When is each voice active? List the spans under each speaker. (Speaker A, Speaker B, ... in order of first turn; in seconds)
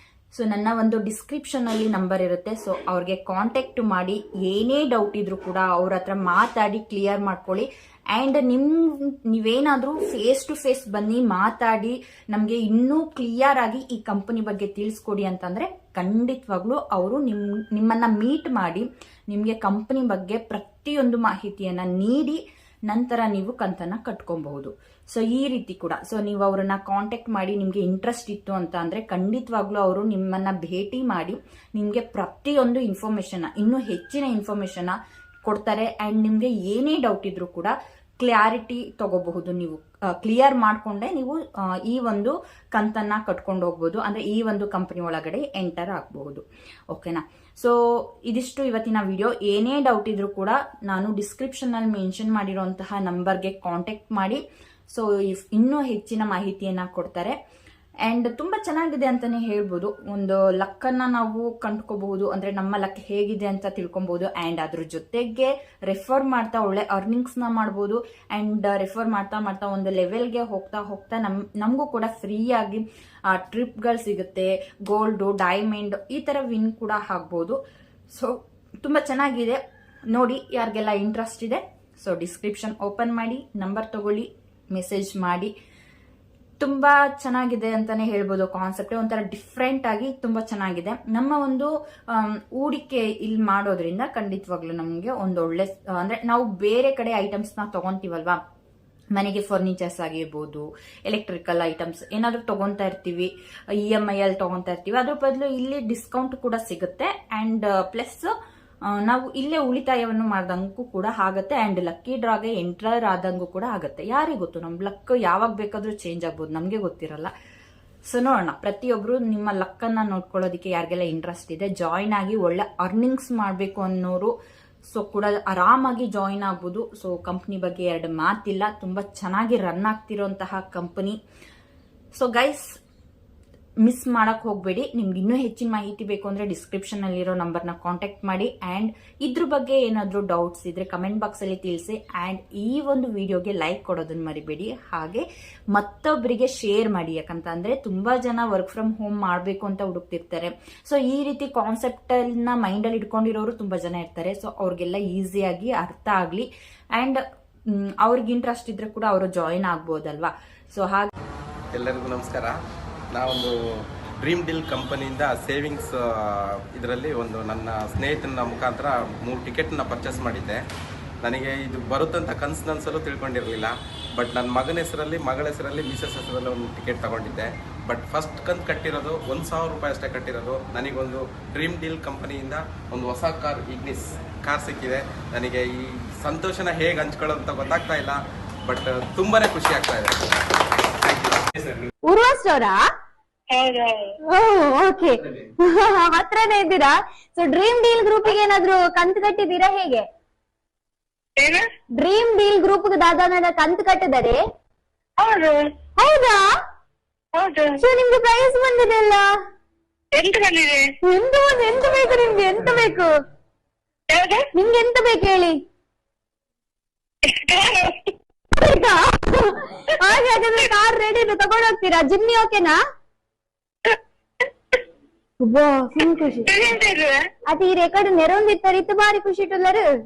Speaker A: 0.3-47.7, 48.3-57.3, 58.0-77.6, 78.1-79.6, 80.1-85.5, 86.6-98.4, 99.1-103.3, 103.8-108.3, 108.9-117.3, 118.1-124.3, 124.9-131.2, 132.2-132.7, 133.8-161.1
Speaker B: 161.7-162.5, 163.1-163.5, 164.2-170.6, 171.2-190.1, 191.0-191.8
Speaker C: 192.1-192.8, 194.3-200.1, 202.0-204.4, 206.0-206.5, 207.8-209.3, 211.0-213.1, 214.5-215.6, 218.6-222.8, 225.4-226.5, 227.5-229.9
Speaker D: 193.5-194.1, 201.4-201.7, 205.2-205.7, 207.3-207.8, 210.1-210.9, 214.1-214.5, 217.2-218.1, 223.8-224.8, 226.4-227.2